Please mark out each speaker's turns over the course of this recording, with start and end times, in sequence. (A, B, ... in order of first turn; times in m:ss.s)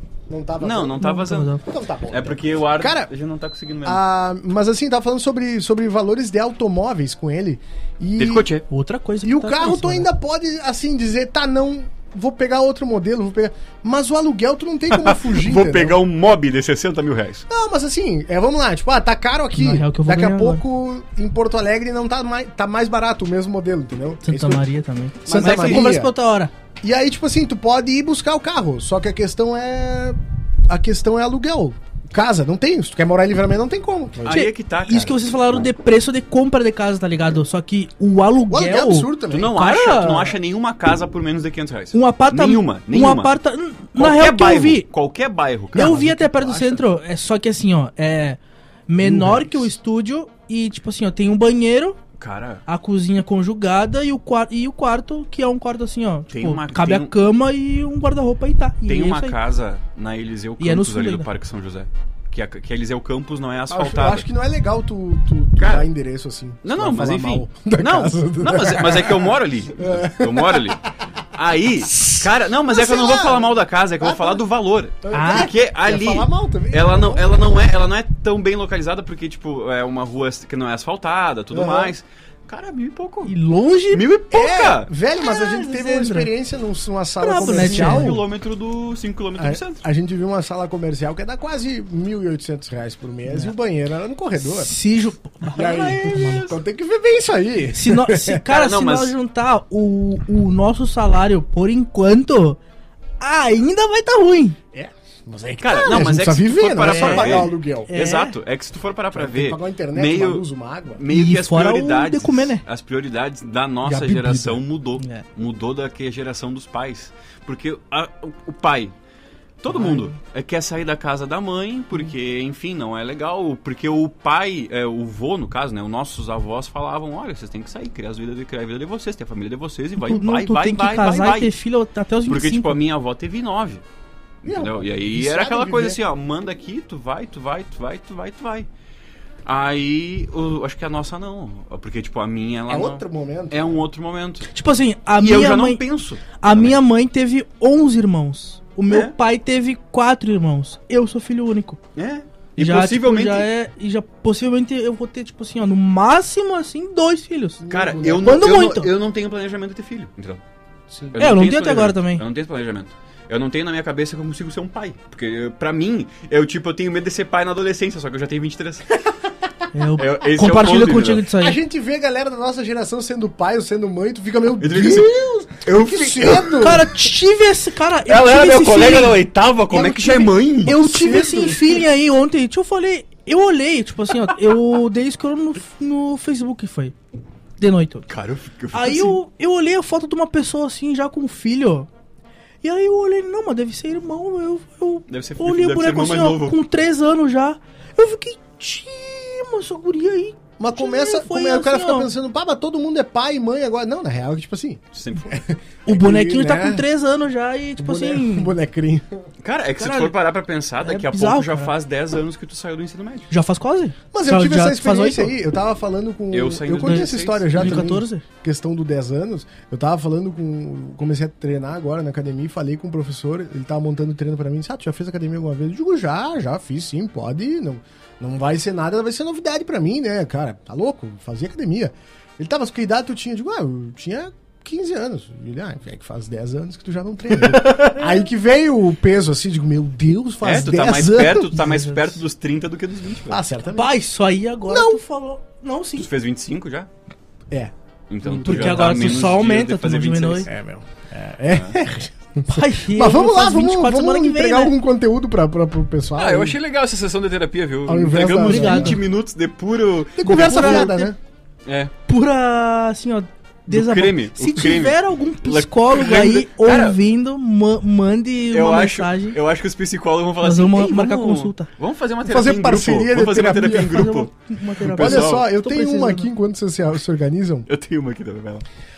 0:00.3-0:01.0 A
0:00.6-0:01.5 B
0:01.0-0:01.6 C
0:01.6-0:03.1 A
0:02.1-0:04.0 B
0:03.8-0:08.5 A
0:08.2-0:08.6 B
0:08.7-0:10.1 C
0:09.2-0:16.0 A
0:14.9-0:17.4 B
0:17.5-0:24.6 A
0:19.6-0:20.6 C
0:24.2-0:26.5 C
0:25.2-0:26.1 A
0:25.3-0:25.8 B
0:26.8-0:34.4 A
0:34.2-0:35.2 B
0:34.3-0:40.4 C
0:38.5-0:39.6 A
0:39.3-0:43.3 B
0:41.9-0:44.9 C
0:44.0-0:46.1 B
0:45.7-0:46.8 A
0:45.7-0:52.0 C
0:49.0-0:49.7 A
0:52.2-0:52.6 B
0:52.6-0:59.4 C
0:56.3-0:57.1 B
0:58.9-1:04.3 B
1:00.6-1:01.3 C
1:03.7-1:10.8 A
1:05.6-1:05.9 B
1:06.6-1:23.3 B
1:12.0-1:14.4 A
1:15.0-1:17.3 A
1:15.1-1:15.5 C
1:21.5-1:21.9 A
1:23.2-1:24.0 C
1:23.9-1:24.9 B
1:24.3-1:28.2 A
1:25.2-1:26.3 C
1:27.2-1:28.2 C
1:27.4-1:29.8 B
1:29.4-1:34.7 A
1:33.3-1:33.5 C
1:34.4-1:36.6 C
1:35.5-1:38.4 A
1:37.7-1:42.6 C
1:38.5-1:39.1 B
1:43.2-1:44.6 C
1:44.7-1:47.9 A
1:45.6-1:58.9 B
1:45.7-1:46.0 C
1:46.8-1:48.4 C
1:49.1-1:51.0 A
1:51.1-1:52.6 C
1:53.8-1:54.6 A
1:55.0-1:55.2 C
1:59.6-2:11.5 B
1:59.7-2:00.1 C
2:10.0-2:12.8 C
2:12.2-2:13.8 B
2:14.4-2:18.7 B
2:14.4-2:16.0 A
2:19.4-2:24.5 B
2:22.7-2:23.6 A
2:24.5-2:25.8 C
2:25.2-2:26.8 B
2:26.4-2:31.8 C
2:32.0-2:33.5 B
2:32.6-2:37.6 C
2:37.6-2:38.6 A
2:37.7-2:40.4 B
2:38.2-2:38.9 C
2:41.1-2:49.0 B
2:41.2-2:42.2 C
2:49.7-2:51.6 C
2:50.0-2:51.2 B
2:51.3-2:56.8 A
2:54.6-2:56.8 B
2:56.6-2:59.2 C
2:58.1-3:01.6 B
2:59.7-3:01.8 A
3:00.6-3:07.0 C
3:07.6-3:08.1 C
3:08.1-3:09.2 B
3:08.7-3:11.9 C
3:12.6-3:22.1 C
3:15.1-3:16.6 B
3:20.6-3:26.8 A
3:24.9-3:25.4 B
3:25.9-3:28.6 C
3:27.8-3:29.1 A
3:29.4-3:33.3 B
3:29.8-3:30.1 C
3:30.8-3:31.7 C
3:33.3-3:35.3 C
3:34.1-4:01.6 A
3:36.3-3:37.9 B
3:36.8-3:38.2 C
3:57.5-3:58.0 C
4:00.4-4:03.4 B
4:01.5-4:02.2 C
4:03.3-4:03.9 A
4:03.7-4:06.1 C
4:04.7-4:05.0 A
4:06.0-4:06.9 B
4:07.5-4:09.2 A
4:08.1-4:10.5 B
4:08.4-4:10.5 C
4:10.4-4:16.6 A
4:12.5-4:14.7 C
4:16.2-4:20.9 B
4:17.8-4:19.0 A
4:18.4-4:19.0 C
4:20.2-4:21.2 A
4:20.3-4:21.1 C
4:21.6-4:21.9 B
4:22.1-4:29.4 C
4:23.7-4:27.0 B
4:28.5-4:35.4 B
4:30.4-4:31.7 C
4:32.2-4:34.2 A
4:33.9-4:36.3 C
4:34.9-4:37.7 A
4:37.7-4:38.6 B